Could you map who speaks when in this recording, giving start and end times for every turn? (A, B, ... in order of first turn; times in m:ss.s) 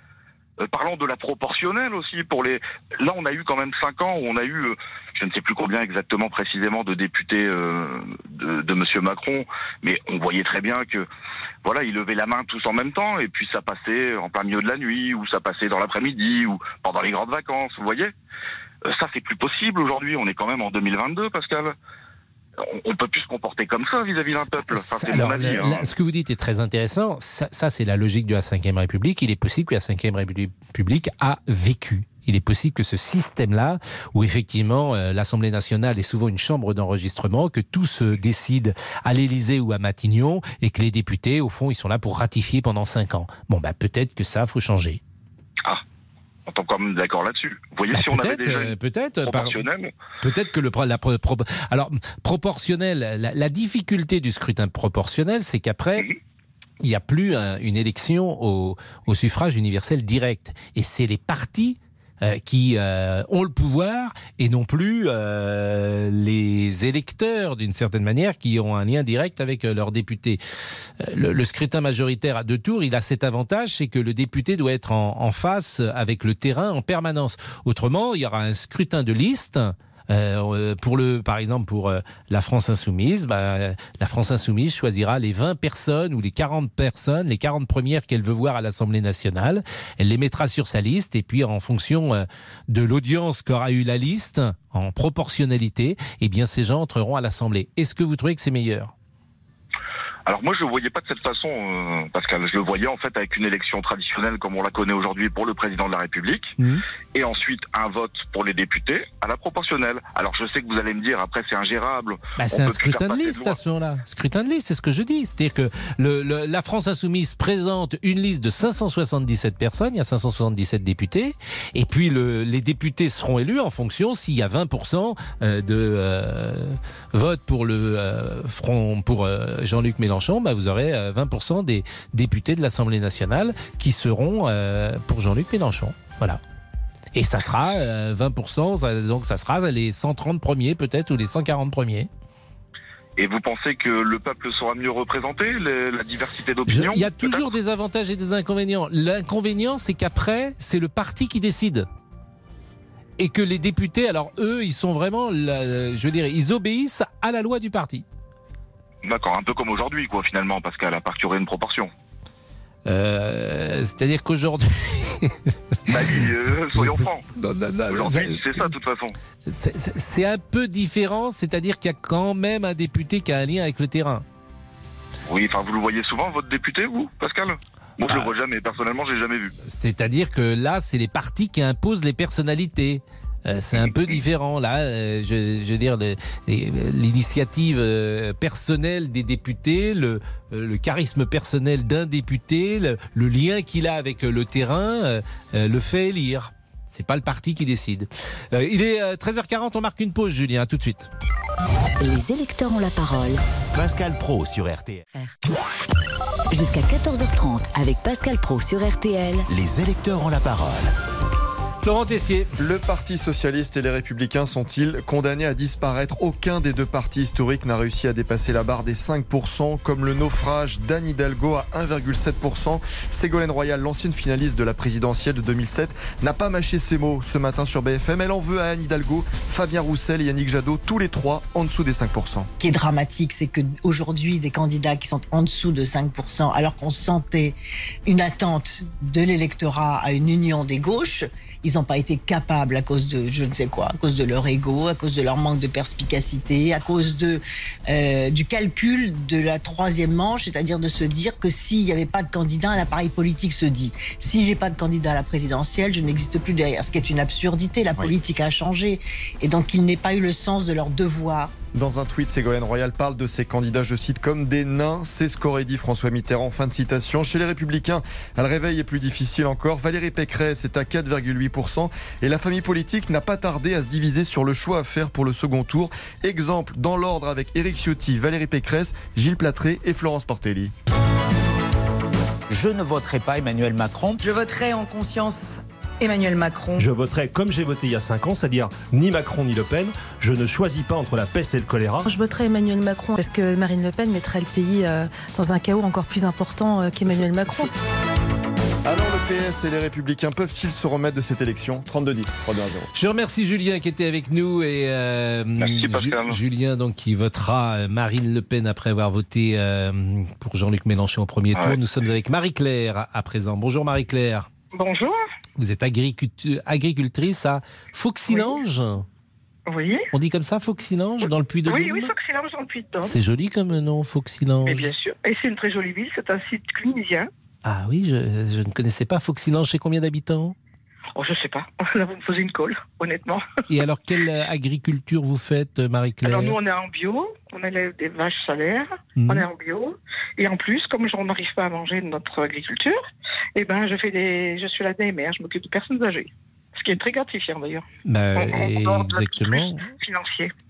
0:00.6-0:11.1 A
0:11.6-0:18.1 A
0:18.9-0:21.8 A
0:22.6-0:25.9 A
0:24.7-0:45.0 B
0:46.5-0:48.8 A
0:47.9-0:49.6 B
0:49.3-0:49.9 A
0:50.2-0:56.1 B
0:56.8-1:10.4 B
1:11.0-1:38.9 B
1:40.3-1:46.5 A
1:47.1-1:53.6 A
1:52.4-2:16.4 B
2:17.2-2:22.1 B
2:23.2-2:27.5 A
2:26.7-2:31.9 B
2:33.2-2:38.1 B
2:39.0-2:41.9 A
2:42.8-2:45.4 B
2:45.9-2:47.2 A
2:46.8-2:48.7 B
2:47.9-2:49.2 A
2:49.5-2:54.2 B
2:55.3-2:59.5 A
2:58.1-2:58.3 B
2:59.6-3:21.1 B
3:22.0-3:23.4 C
3:23.7-3:25.1 D
3:26.5-3:29.5 C
3:29.5-3:30.9 D
3:31.8-3:32.5 B
3:32.6-3:52.5 E
3:52.6-3:57.6 F
3:58.1-4:21.5 F
4:21.7-4:40.7 E
4:42.5-4:44.2 G
4:44.2-4:46.4 H
4:46.2-4:46.8 G
4:46.8-4:52.1 I
4:52.1-4:57.8 J
4:58.9-5:02.9 E
5:02.9-5:14.5 B
5:05.6-5:06.4 A
5:14.7-5:15.2 K
5:15.6-5:19.0 B
5:18.3-5:18.6 K
5:19.7-5:20.1 K
5:20.1-5:22.1 B
5:21.2-5:23.2 K
5:23.0-5:24.9 B
5:24.6-5:27.3 K
5:27.6-5:30.6 B
5:31.2-5:33.4 K
5:33.7-5:36.6 B
5:36.2-5:43.0 K
5:39.2-5:39.5 B
5:43.6-5:50.5 K
5:48.0-5:49.9 B